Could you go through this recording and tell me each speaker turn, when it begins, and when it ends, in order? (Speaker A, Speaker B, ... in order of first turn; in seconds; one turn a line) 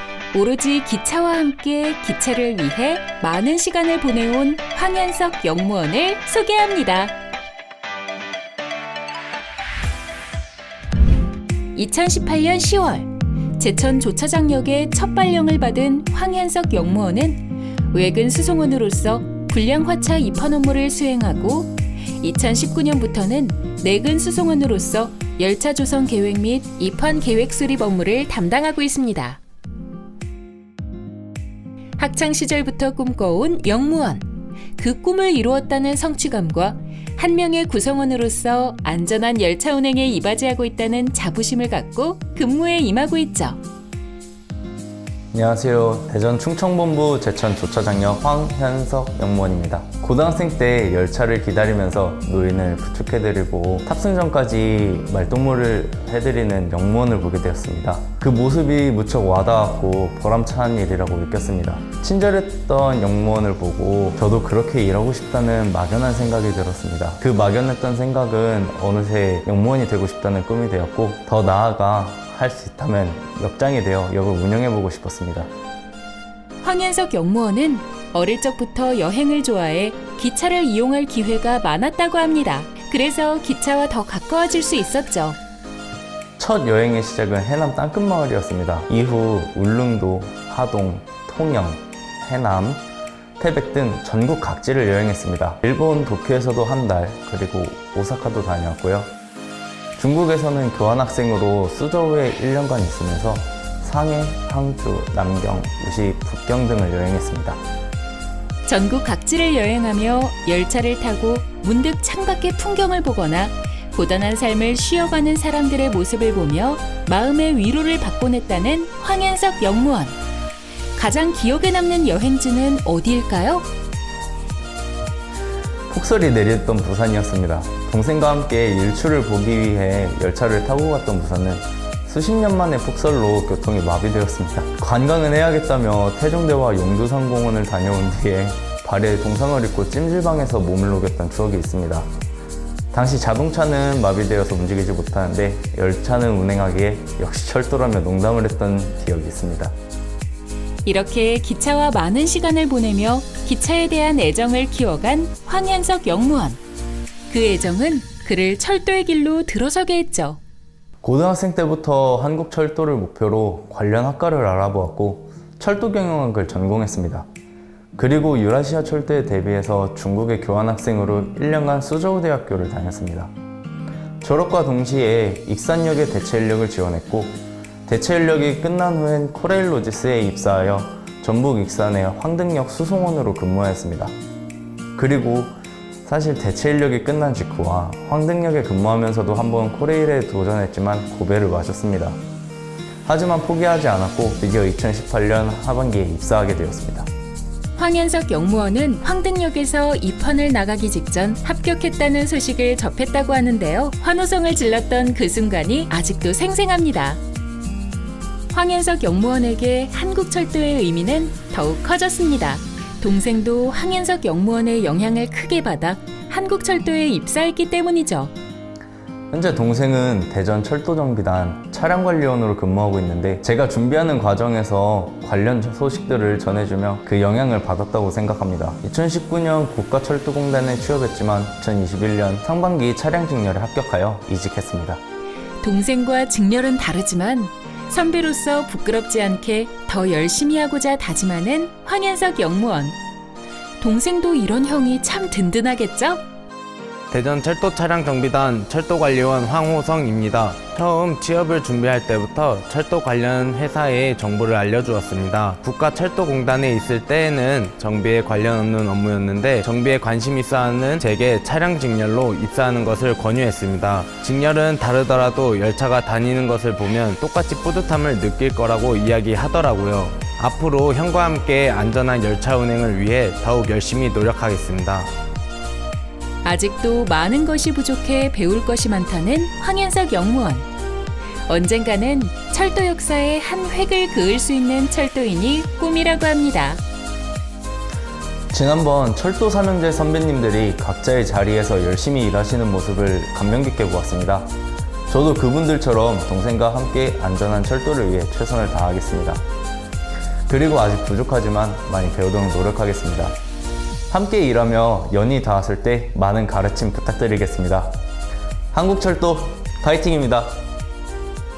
Speaker A: 0.3-7.2
Speaker A: 11.7-29.4
Speaker A: 32.0-43.6
Speaker B: 45.3-75.5
Speaker A: 76.6-85.4
Speaker B: 86.4-92.8
Speaker B: 93.4-99.1
Speaker B: 100.0-107.6
Speaker A: 108.7-120.2
Speaker A: 121.0-123.7
Speaker B: 125.9-142.1
Speaker B: 142.9-149.7
Speaker A: 150.8-156.6
Speaker A: 157.3-160.4
Speaker B: 161.0-167.3
Speaker B: 168.0-173.3
Speaker B: 174.2-184.2
Speaker B: 185.0-192.2
Speaker B: 193.1-197.1
Speaker A: 197.8-207.2
Speaker A: 208.5-218.3
Speaker B: 219.3-235.0
Speaker A: 235.6-243.0
Speaker A: 243.8-246.2
Speaker C: 247.1-275.1
Speaker A: 276.4-280.7
Speaker A: 281.5-286.8
Speaker B: 288.5-294.5
Speaker B: 295.1-299.4
Speaker B: 300.5-303.4
Speaker B: 304.1-308.0
Speaker B: 308.7-310.7